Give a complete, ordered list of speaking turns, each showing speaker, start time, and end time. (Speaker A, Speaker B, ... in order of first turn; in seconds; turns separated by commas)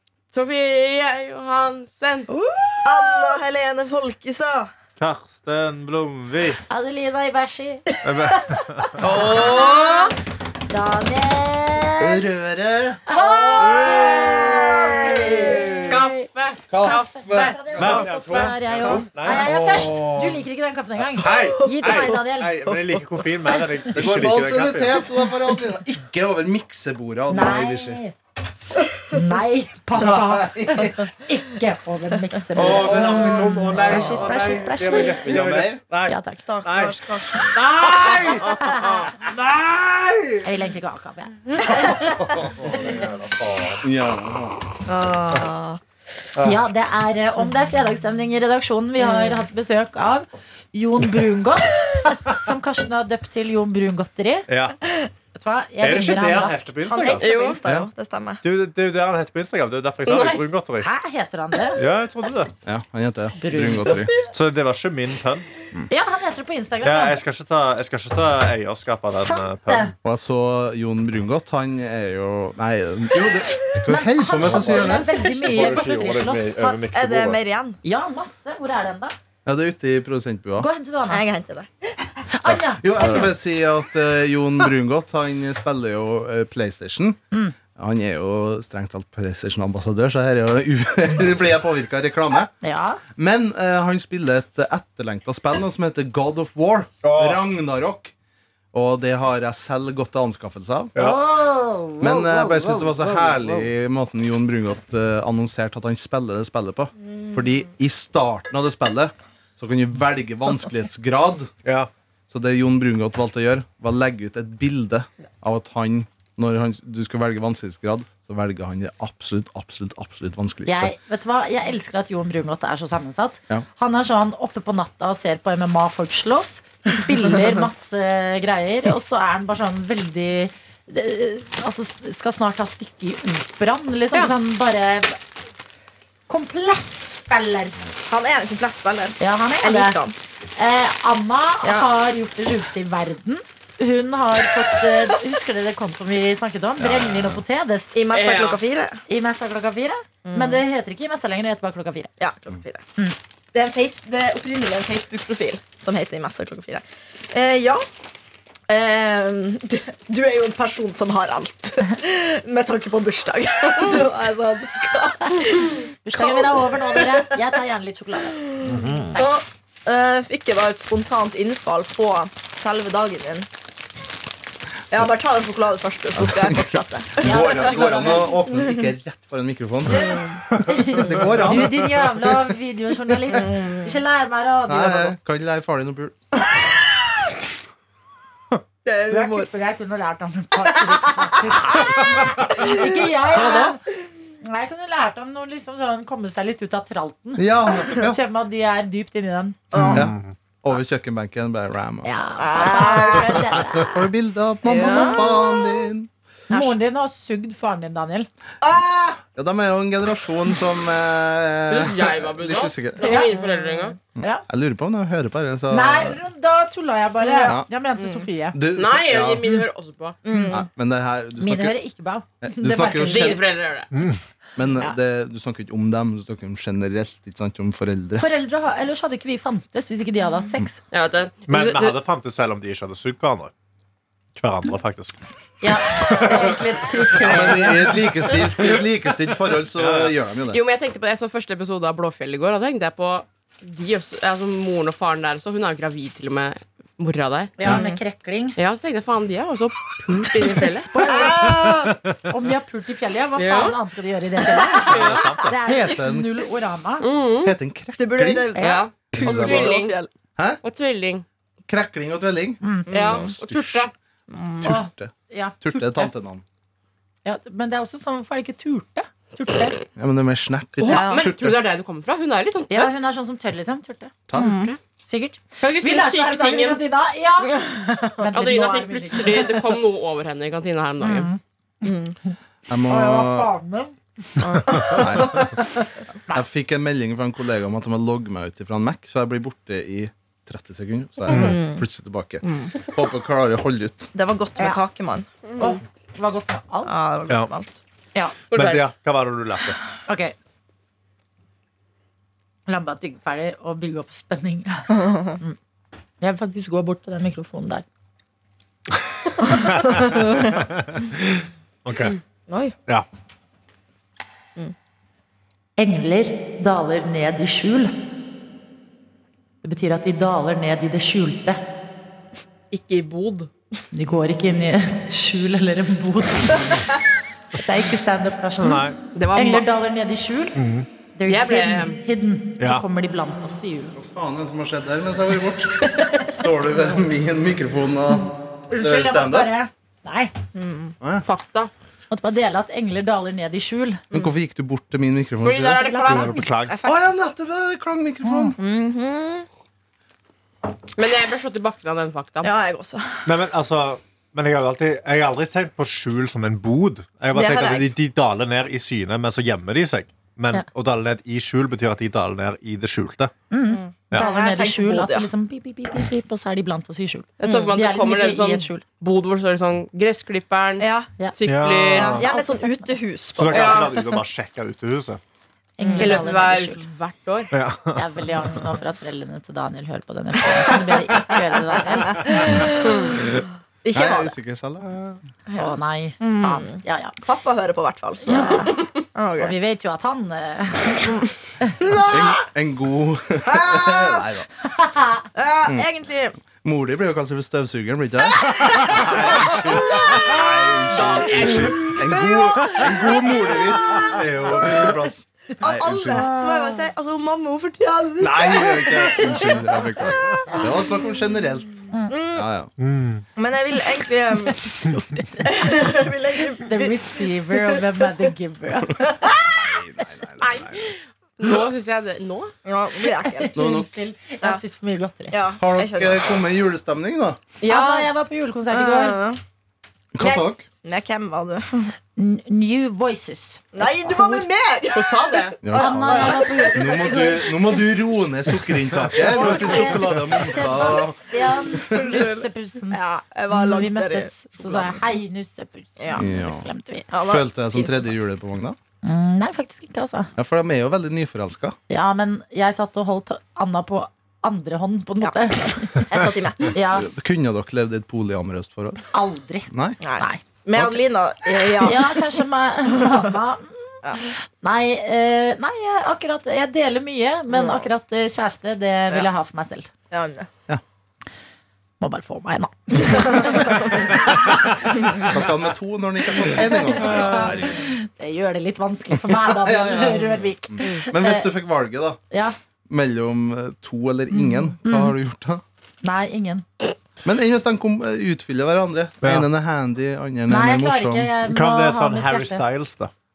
Speaker A: 0.3-2.3, Speaker B: 2.3-3.4, Speaker C: 2.8-4.7, Speaker D: 5.0-6.6, Speaker B: 6.7-7.9, Speaker D: 8.0-9.4, Speaker A: 9.0-10.1, Speaker B: 9.1-10.1, Speaker B: 10.7-12.2, Speaker E: 12.0-13.0, Speaker B: 13.1-16.3, Speaker C: 13.1-15.8, Speaker D: 13.6-16.1, Speaker A: 15.9-17.8, Speaker E: 16.7-18.0, Speaker B: 16.8-22.8, Speaker D: 17.8-19.5, Speaker E: 19.2-20.4, Speaker D: 21.1-25.1, Speaker C: 21.3-22.1, Speaker E: 23.9-28.0, Speaker B: 27.3-28.1, Speaker B: 29.1-35.2, Speaker E: 29.9-31.1, Speaker D: 32.5-40.5, Speaker E: 32.6-34.0, Speaker E: 35.2-35.8, Speaker B: 36.1-36.4, Speaker C: 36.5-37.6, Speaker B: 38.3-39.1, Speaker B: 40.4-43.1, Speaker D: 41.9-43.8, Speaker E: 42.3-43.1, Speaker E: 43.8-44.6, Speaker C: 44.9-45.8, Speaker D: 46.4-46.6, Speaker B: 46.4-54.5, Speaker C: 49.0-49.4, Speaker D: 54.5-54.8, Speaker B: 55.4-57.1, Speaker D: 55.8-57.3, Speaker C: 56.8-58.4, Speaker A: 57.2-57.6, Speaker D: 58.4-60.9, Speaker B: 60.0-61.8, Speaker D: 61.8-62.6, Speaker E: 62.6-64.1, Speaker B: 63.4-64.1, Speaker D: 63.5-65.5, Speaker B: 65.9-67.2, Speaker D: 66.8-69.9, Speaker B: 69.1-69.9, Speaker E: 70.0-75.3, Speaker B: 73.9-76.6, Speaker D: 74.4-77.4, Speaker C: 76.6-77.8, Speaker B: 77.8-79.2, Speaker E: 79.5-80.7, Speaker B: 80.6-81.2, Speaker C: 81.1-82.1, Speaker B: 82.3-83.3, Speaker E: 82.6-87.2, Speaker E: 87.8-92.5, Speaker B: 92.6-93.0, Speaker E: 93.1-98.1, Speaker D: 97.0-97.4, Speaker E: 98.7-100.9, Speaker D: 101.0-101.2, Speaker B: 101.0-102.3, Speaker E: 102.0-111.5, Speaker D: 102.1-103.7, Speaker E: 112.3-120.9, Speaker B: 120.7-135.2, Speaker B: 136.3-137.8, Speaker C: 138.0-140.1, Speaker B: 139.2-140.0, Speaker B: 140.6-148.0, Speaker C: 141.6-141.9, Speaker E: 146.8-147.4, Speaker C: 147.9-149.0, Speaker A: 148.1-148.6, Speaker B: 149.1-152.1, Speaker C: 150.2-150.6, Speaker C: 152.2-152.8, Speaker C: 153.5-157.9, Speaker C: 158.7-167.4, Speaker B: 165.3-169.3, Speaker C: 168.5-173.5, Speaker D: 168.6-169.2, Speaker C: 174.9-178.9, Speaker E: 176.2-180.2, Speaker B: 177.2-178.4, Speaker C: 180.0-180.4, Speaker D: 180.5-181.0, Speaker B: 180.7-185.2, Speaker E: 180.9-182.0, Speaker C: 183.3-184.0, Speaker E: 184.7-186.2, Speaker C: 188.8-189.5, Speaker B: 189.1-193.8, Speaker C: 192.6-192.9, Speaker E: 193.3-193.8, Speaker B: 194.4-199.8, Speaker E: 197.4-198.2, Speaker C: 199.7-200.0, Speaker D: 199.8-200.3, Speaker E: 199.9-202.2, Speaker B: 202.0-204.1, Speaker C: 202.4-203.6, Speaker E: 203.6-206.1, Speaker C: 204.7-205.8, Speaker B: 204.8-205.3, Speaker B: 206.5-208.3, Speaker C: 206.5-206.8, Speaker C: 208.6-209.2, Speaker E: 209.3-213.2, Speaker A: 211.7-214.0, Speaker B: 213.0-213.4, Speaker C: 213.1-213.7, Speaker E: 214.2-216.2, Speaker B: 215.7-218.6, Speaker C: 217.2-218.3, Speaker E: 218.5-219.5, Speaker A: 218.8-220.2, Speaker C: 220.2-220.6, Speaker B: 220.3-220.6, Speaker E: 220.5-221.8, Speaker B: 221.4-223.4, Speaker E: 222.4-223.4, Speaker A: 223.0-223.9, Speaker D: 223.9-224.2, Speaker E: 224.6-228.3, Speaker B: 228.2-230.8, Speaker A: 230.9-232.0, Speaker D: 231.5-233.5, Speaker D: 234.3-235.2, Speaker B: 235.6-238.1, Speaker D: 235.9-236.8, Speaker E: 237.2-240.6, Speaker D: 239.8-240.1, Speaker A: 240.5-247.6, Speaker B: 247.6-248.6, Speaker C: 247.6-248.0, Speaker A: 248.6-250.9, Speaker B: 250.6-257.1, Speaker C: 251.0-252.0, Speaker A: 253.4-253.8, Speaker A: 254.8-255.3, Speaker D: 254.8-255.6, Speaker E: 255.6-256.3, Speaker A: 257.0-257.6, Speaker E: 257.4-258.5, Speaker C: 258.0-260.1, Speaker B: 258.6-258.9, Speaker A: 258.6-259.9, Speaker E: 259.1-259.8, Speaker E: 260.4-260.6, Speaker A: 260.6-261.2, Speaker E: 261.7-263.9, Speaker B: 262.6-262.9, Speaker C: 262.9-263.3, Speaker A: 262.9-263.9, Speaker C: 264.3-264.7, Speaker E: 264.6-266.4, Speaker B: 264.6-266.1, Speaker B: 267.2-269.8, Speaker E: 270.0-271.6, Speaker A: 270.8-273.1, Speaker B: 270.9-271.3, Speaker B: 272.7-274.3, Speaker E: 274.3-274.6, Speaker C: 274.4-274.7, Speaker A: 274.4-274.8, Speaker B: 275.1-279.6, Speaker A: 275.6-276.8, Speaker A: 278.3-281.3, Speaker B: 281.0-281.9, Speaker C: 281.8-282.1, Speaker E: 282.7-283.5, Speaker B: 282.9-284.0, Speaker C: 284.4-285.5, Speaker E: 284.8-285.6, Speaker E: 286.3-294.1, Speaker D: 291.3-291.6, Speaker C: 291.3-291.9, Speaker C: 292.4-292.8, Speaker C: 294.1-295.8, Speaker B: 295.6-296.9, Speaker C: 296.9-297.8, Speaker B: 298.1-298.6, Speaker A: 298.5-298.8, Speaker D: 298.5-299.8, Speaker B: 300.1-300.4, Speaker B: 302.7-305.6, Speaker C: 304.9-305.4, Speaker B: 306.2-307.9, Speaker D: 309.3-312.2, Speaker C: 309.5-310.5, Speaker C: 312.5-312.8, Speaker B: 315.8-317.9, Speaker B: 319.6-321.6, Speaker A: 322.7-323.5, Speaker B: 323.9-327.0, Speaker B: 327.5-328.8, Speaker D: 328.6-329.0, Speaker A: 329.1-329.7, Speaker B: 329.3-330.6, Speaker D: 330.6-330.9, Speaker B: 331.1-334.0, Speaker A: 331.3-332.0, Speaker D: 332.6-332.9, Speaker E: 333.9-339.5, Speaker B: 338.7-340.3, Speaker C: 340.6-340.9, Speaker A: 341.2-341.7, Speaker B: 342.1-344.0, Speaker E: 344.1-345.9, Speaker A: 345.4-346.4, Speaker B: 345.8-346.5, Speaker D: 346.1-346.8, Speaker C: 346.6-347.1, Speaker E: 346.8-348.6, Speaker B: 348.2-348.5, Speaker C: 348.5-349.5, Speaker A: 351.0-352.5, Speaker C: 352.4-353.2, Speaker D: 353.2-363.3, Speaker C: 357.3-357.9, Speaker B: 363.5-368.8, Speaker C: 363.7-365.3, Speaker A: 367.4-372.3, Speaker C: 370.8-371.1, Speaker D: 371.4-372.3, Speaker C: 371.9-374.2, Speaker B: 372.1-373.0, Speaker D: 373.4-375.2, Speaker A: 373.5-373.9, Speaker B: 375.8-376.8, Speaker C: 375.8-376.3, Speaker A: 376.0-377.5, Speaker D: 377.5-378.6, Speaker B: 377.9-382.7, Speaker C: 382.3-383.3, Speaker A: 382.8-383.1, Speaker C: 383.8-384.3, Speaker E: 383.9-385.1, Speaker C: 385.5-389.6, Speaker B: 385.6-387.2, Speaker B: 388.3-388.8, Speaker B: 389.4-391.8, Speaker C: 391.8-392.4, Speaker E: 392.1-394.5, Speaker C: 393.5-394.2, Speaker B: 394.7-395.2, Speaker C: 395.3-396.4, Speaker E: 396.4-406.3, Speaker C: 398.5-400.5, Speaker A: 400.9-401.9, Speaker C: 401.7-404.1, Speaker D: 404.0-405.2, Speaker C: 405.6-409.7, Speaker E: 408.2-411.8, Speaker B: 410.5-410.7, Speaker C: 412.1-412.5, Speaker E: 412.3-412.7, Speaker D: 412.8-413.2, Speaker C: 413.4-414.7, Speaker B: 414.5-419.1, Speaker C: 415.4-417.8, Speaker E: 419.3-420.9, Speaker A: 420.4-422.5, Speaker C: 422.7-423.6, Speaker B: 423.0-425.4, Speaker E: 423.6-423.9, Speaker C: 425.3-426.3, Speaker E: 425.6-427.4, Speaker B: 427.6-429.2, Speaker A: 427.7-428.0, Speaker C: 427.8-428.0, Speaker C: 428.7-429.4, Speaker E: 430.1-430.7, Speaker C: 430.2-431.9, Speaker B: 432.2-434.5, Speaker C: 433.7-437.4, Speaker A: 434.9-435.6, Speaker E: 435.6-442.2, Speaker B: 435.7-437.5, Speaker B: 439.1-447.1, Speaker C: 439.2-439.9, Speaker C: 440.6-441.2, Speaker C: 441.9-442.4, Speaker C: 442.9-445.1, Speaker C: 446.0-446.3, Speaker E: 446.1-446.7, Speaker C: 447.1-448.0, Speaker E: 447.2-448.8, Speaker B: 449.0-450.3, Speaker E: 450.4-451.8, Speaker B: 451.9-456.1, Speaker C: 455.2-456.8, Speaker B: 456.7-457.1, Speaker E: 456.9-459.0, Speaker B: 459.1-460.4, Speaker E: 459.7-460.0, Speaker C: 460.0-462.4, Speaker B: 461.8-469.9, Speaker C: 467.5-467.9, Speaker C: 470.1-470.5, Speaker B: 472.0-474.6, Speaker E: 475.1-477.9, Speaker B: 476.6-481.5, Speaker E: 479.1-482.2, Speaker B: 482.3-482.6, Speaker E: 482.9-485.6, Speaker B: 484.8-485.2, Speaker B: 486.0-486.7, Speaker E: 487.2-491.3, Speaker D: 489.2-489.5, Speaker B: 490.5-492.6, Speaker D: 491.4-493.1